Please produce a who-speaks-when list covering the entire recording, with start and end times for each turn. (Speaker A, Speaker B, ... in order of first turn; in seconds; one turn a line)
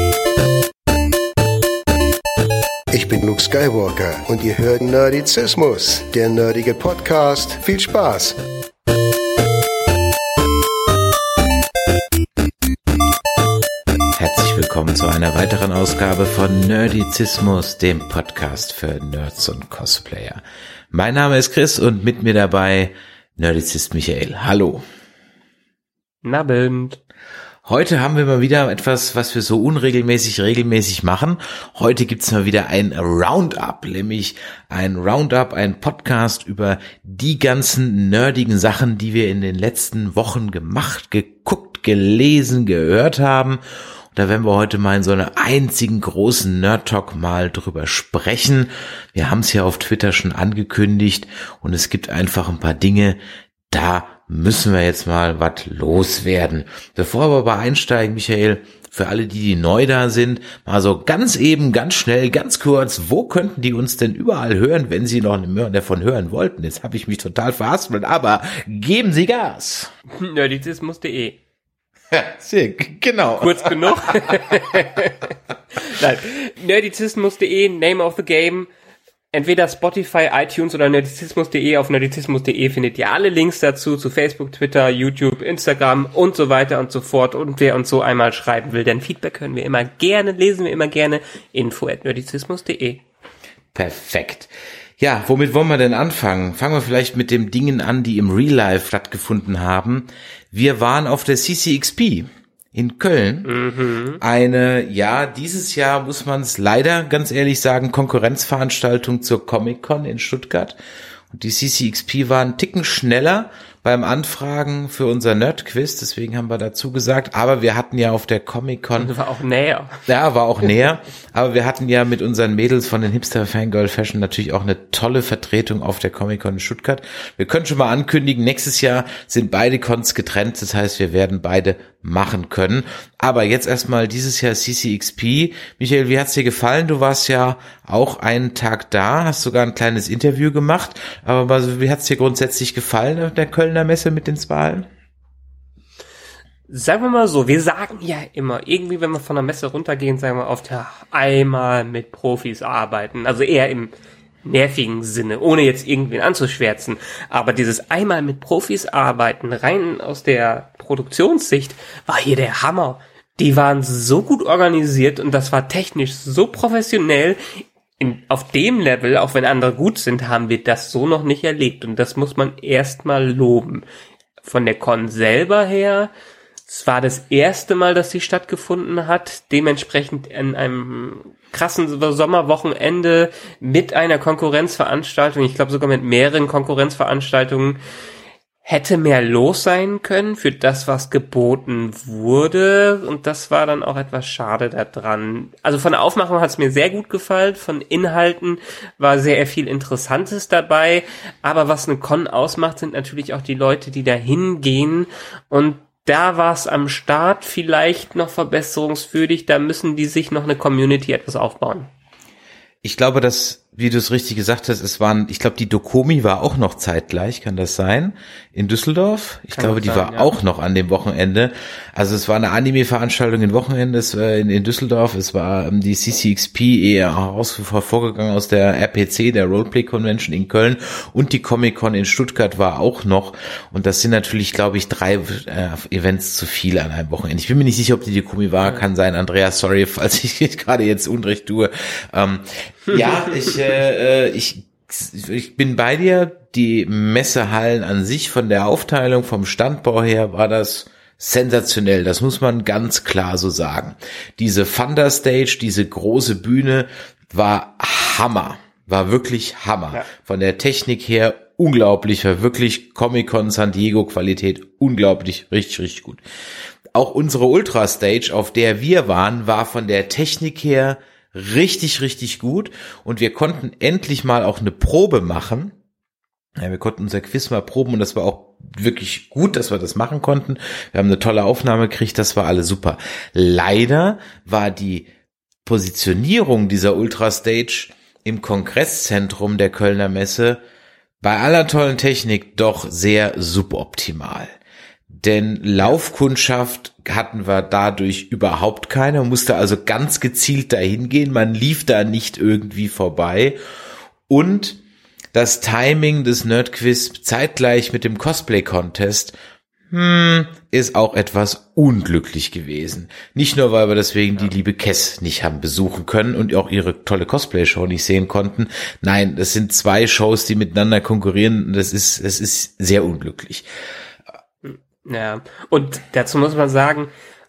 Speaker A: 2.9-8.4
Speaker B: 14.2-20.4
Speaker B: 20.9-24.8
Speaker C: 26.2-27.0
Speaker B: 27.6-43.6
Speaker B: 44.1-69.9
Speaker C: 70.2-71.4
Speaker B: 72.1-74.5
Speaker C: 73.4-78.7
Speaker C: 79.3-93.0
Speaker B: 93.7-103.5
Speaker C: 103.4-104.2
Speaker B: 104.2-110.8
Speaker B: 111.3-119.1
Speaker C: 119.0-119.9
Speaker B: 120.1-144.9
Speaker C: 146.7-153.9
Speaker C: 154.4-167.4
Speaker C: 168.0-173.8
Speaker C: 174.4-176.1
Speaker C: 176.7-187.8
Speaker C: 188.6-211.9
Speaker B: 212.8-266.2
Speaker C: 219.5-220.3
Speaker B: 266.9-275.7
Speaker B: 276.6-285.1
Speaker B: 285.6-290.6
Speaker B: 291.2-294.5
Speaker B: 295.1-303.6
Speaker B: 304.3-304.8
Speaker B: 305.3-309.4
Speaker B: 309.9-323.7
Speaker C: 324.6-327.1